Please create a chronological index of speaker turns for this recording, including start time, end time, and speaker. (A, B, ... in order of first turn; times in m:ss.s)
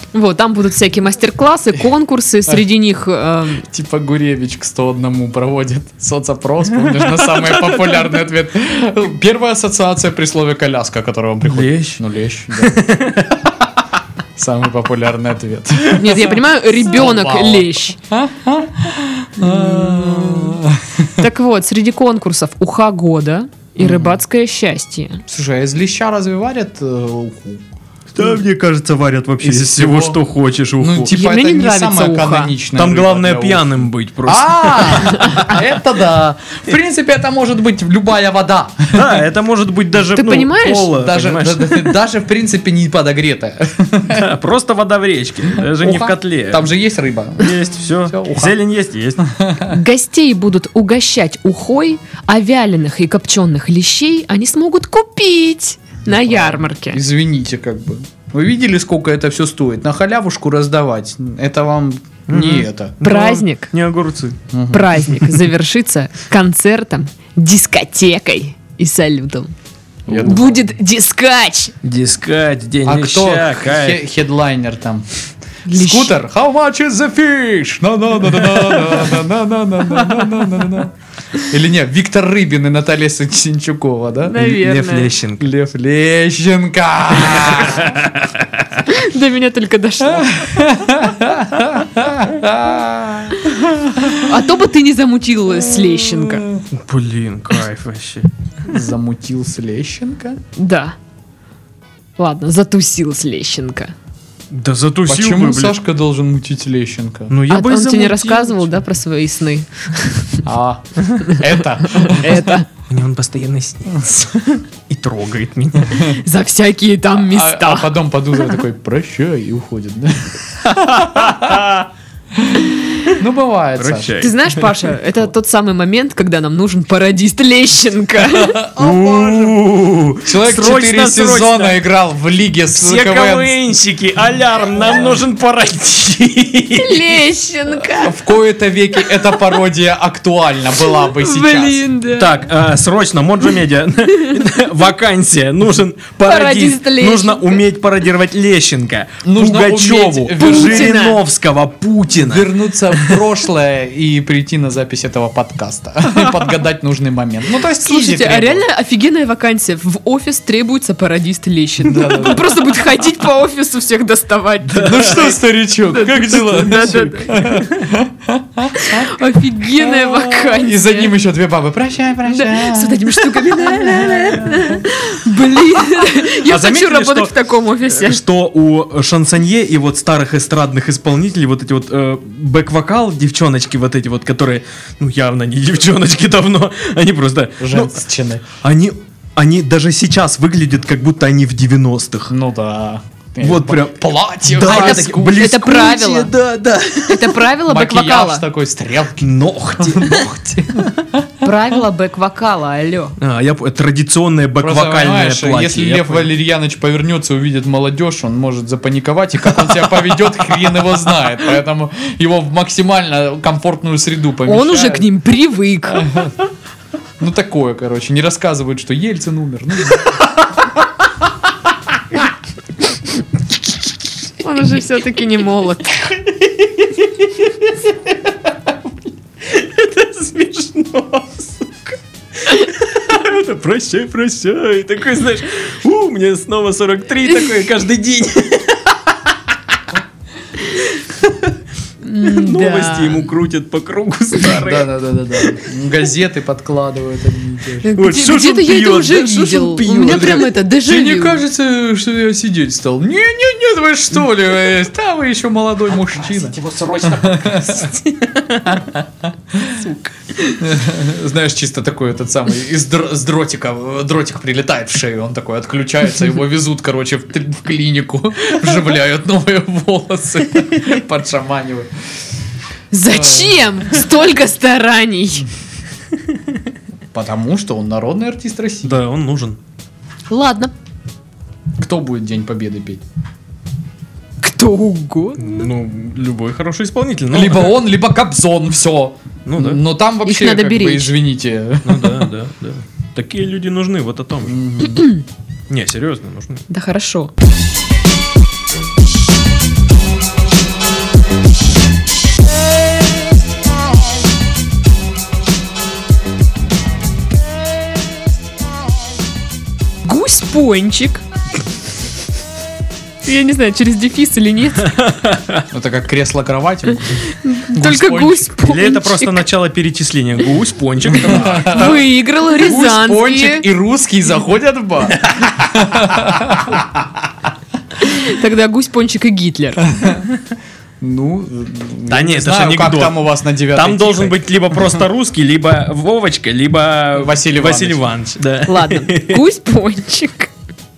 0:00.1-0:03.6 A
0:03.6-0:12.8 B
0:06.9-0:07.8 C
0:11.4-0:12.0 C
0:12.6-0:13.5 C
0:14.4-0:21.2 B
0:15.9-0:18.0 A
0:19.4-0:20.6 A
0:21.2-0:25.2 A
0:23.8-0:24.2 B
0:25.3-0:27.6 B
0:28.1-0:31.1 C
0:29.4-0:30.2 B
0:30.8-0:39.2 B
0:31.1-0:32.5 A
0:32.8-0:35.6 C
0:38.9-0:41.9 C
0:40.1-0:40.9 A
0:40.9-0:44.3 B
0:44.1-0:46.7 C
0:45.6-0:48.6 B
0:47.4-0:49.3 C
0:49.2-0:49.7 B
0:49.6-0:57.0 A
0:56.1-1:03.0 B
1:02.3-1:04.4 C
1:03.0-1:03.7 A
1:04.5-1:05.0 B
1:04.7-1:09.5 A
1:10.1-1:10.4 C
1:10.1-1:10.6 B
1:10.2-1:11.7 A
1:11.8-1:14.0 C
1:12.8-1:24.4 B
1:15.6-1:16.1 A
1:18.4-1:19.0 C
1:20.0-1:20.5 C
1:24.3-1:25.1 A
1:24.3-1:25.5 C
1:25.4-1:28.0 B
1:27.3-1:28.6 C
1:28.8-1:30.6 A
1:30.0-1:34.3 B
1:34.1-1:36.4 A
1:35.8-1:36.6 B
1:36.7-1:38.3 C
1:38.6-1:40.4 B
1:40.6-1:41.0 A
1:42.2-1:43.9 A
1:44.5-1:45.8 C
1:45.1-1:47.3 B
1:47.3-1:48.8 C
1:47.5-1:50.4 A
1:50.4-1:52.5 B
1:51.9-1:52.7 A
1:52.9-1:56.1 C
1:56.0-1:57.9 A
1:57.2-2:01.6 B
2:00.7-2:01.9 C
2:02.3-2:04.2 B
2:03.8-2:04.7 C
2:04.2-2:08.6 A
2:08.3-2:09.6 B
2:08.8-2:11.8 C
2:10.2-2:13.6 B
2:12.8-2:17.2 C
2:14.8-2:15.1 B
2:16.8-2:18.2 A
2:17.9-2:21.8 B
2:21.0-2:22.3 A
2:22.1-2:33.2 C
2:26.2-2:27.6 A
2:29.2-2:30.9 B
2:30.4-2:31.2 A
2:32.2-2:38.6 B
2:37.7-2:47.7 A
2:41.8-2:42.6 B
2:42.0-2:42.4 C
2:44.7-2:45.3 C
2:44.8-2:54.8 B
2:48.7-2:51.1 A
2:52.3-2:58.2 A
2:56.2-3:07.9 C
3:07.6-3:08.4 B
3:08.6-3:12.3 C
3:12.3-3:15.6 B
3:13.4-3:17.4 C
3:14.6-3:16.3 A
3:17.0-3:18.4 A
3:17.6-3:21.5 B
3:19.2-3:20.3 C
3:21.4-3:23.2 A
3:23.2-3:26.3 C
3:24.6-3:35.1 B
3:34.4-3:36.2 A
3:35.9-3:36.3 B
3:37.2-3:40.3 B
3:44.4-3:46.0 A
3:46.3-3:47.8 C
3:49.4-3:59.3 C
4:02.0-4:03.3 A
4:02.2-4:05.6 C
4:04.4-4:07.9 B
4:07.8-4:11.4 A
4:08.0-4:10.5 C
4:10.1-4:17.9 B
4:16.4-4:17.9 C
4:17.9-4:18.4 A
4:19.5-4:19.8 B
4:19.8-4:20.6 A
4:20.6-4:31.9 B
4:32.9-4:35.5 A
4:33.1-4:33.6 B
4:37.1-4:39.0 B
4:38.8-4:39.6 C
4:40.3-4:40.7 A
4:41.8-4:43.0 B
4:44.4-4:45.7 A
4:45.4-4:47.8 C
4:47.3-4:52.3 B
4:49.5-4:49.8 C
4:50.2-4:51.1 A
4:51.8-4:54.6 C
4:54.5-4:55.1 B
4:54.9-4:55.2 A
4:55.7-4:56.6 C
4:56.7-4:57.3 A
5:10.0-5:11.2 A
5:13.2-5:15.0 A
5:15.0-5:15.6 C
5:15.7-5:18.5 B
5:17.3-5:19.5 A
5:18.6-5:22.0 C
5:21.2-5:26.8 B
5:21.6-5:23.6 A
5:28.0-5:30.2 A
5:30.0-5:30.2 B
5:31.0-5:35.0 B
5:32.1-5:39.4 C
5:37.2-5:38.1 B
5:38.6-5:40.5 A